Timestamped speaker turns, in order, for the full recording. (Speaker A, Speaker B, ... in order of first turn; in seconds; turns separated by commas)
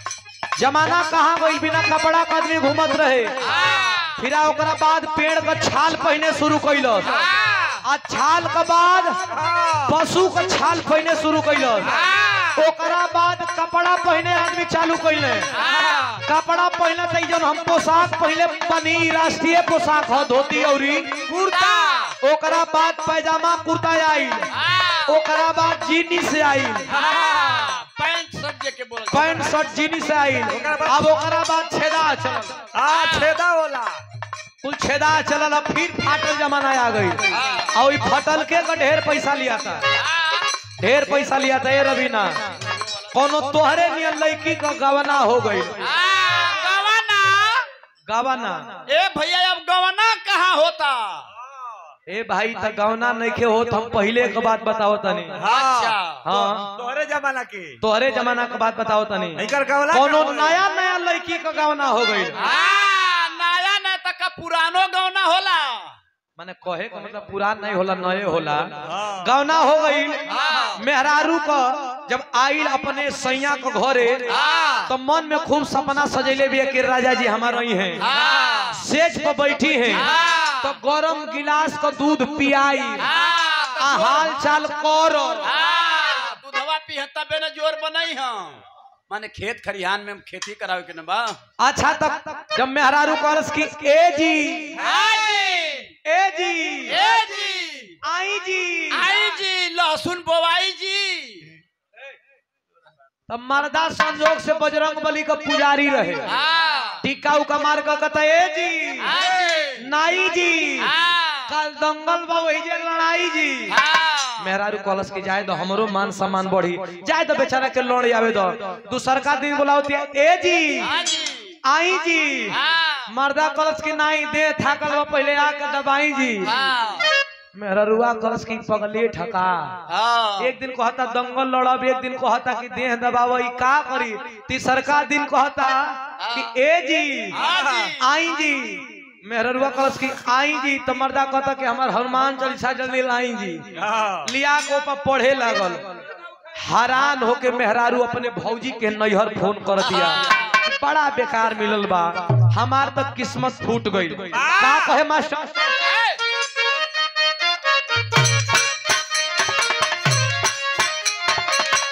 Speaker A: 0.6-3.4, Speaker B: 3.4-4.2, Speaker A: 4.2-7.2, Speaker B: 7.1-7.8, Speaker A: 7.8-9.3, Speaker C: 9.3-10.0, Speaker A: 9.8-12.0, Speaker B: 11.9-12.6, Speaker A: 12.6-15.5, Speaker B: 15.5-16.2, Speaker A: 16.2-21.4, Speaker B: 21.4-22.1, Speaker A: 22.2-24.6, Speaker B: 24.6-25.2, Speaker A: 25.1-26.9, Speaker B: 26.9-29.7, Speaker A: 29.1-32.6, Speaker C: 30.5-31.1, Speaker C: 32.8-34.0, Speaker B: 32.9-33.4, Speaker A: 34.6-39.8, Speaker B: 37.3-37.7, Speaker B: 40.0-40.5, Speaker A: 40.8-42.6, Speaker A: 43.1-45.8, Speaker B: 45.8-47.7, Speaker A: 48.1-48.8, Speaker B: 48.9-51.3, Speaker A: 52.1-55.4, Speaker C: 55.4-57.8, Speaker B: 55.5-56.3, Speaker A: 56.2-56.7, Speaker A: 57.8-62.4, Speaker C: 59.4-60.6, Speaker B: 62.4-66.0, Speaker A: 66.4-74.3, Speaker C: 68.9-69.3, Speaker B: 70.3-70.8, Speaker B: 74.3-74.9, Speaker A: 74.9-78.0, Speaker B: 78.0-78.8, Speaker A: 78.7-83.1, Speaker B: 79.9-80.7, Speaker B: 83.0-84.2, Speaker A: 83.8-85.5, Speaker B: 85.4-91.4, Speaker A: 91.6-94.9, Speaker B: 94.8-95.9, Speaker A: 96.1-97.0, Speaker B: 96.9-98.0, Speaker A: 98.0-99.1, Speaker B: 98.9-101.5, Speaker A: 103.3-106.3, Speaker B: 106.3-107.0, Speaker A: 107.0-109.2, Speaker B: 109.0-109.8, Speaker A: 109.8-110.9, Speaker B: 110.8-111.5, Speaker A: 111.5-113.8, Speaker B: 113.7-114.5, Speaker A: 114.4-120.9, Speaker B: 120.8-121.6, Speaker A: 121.7-126.5, Speaker B: 122.5-123.1, Speaker B: 126.4-127.1, Speaker A: 127.5-129.8, Speaker B: 129.9-130.5, Speaker A: 130.4-137.4, Speaker B: 136.2-136.6, Speaker B: 137.3-138.0, Speaker C: 137.4-137.9, Speaker A: 138.0-143.7, Speaker C: 143.8-144.3, Speaker A: 144.2-145.8, Speaker A: 146.6-155.8, Speaker B: 149.8-150.6, Speaker C: 154.3-154.7, Speaker B: 155.8-156.2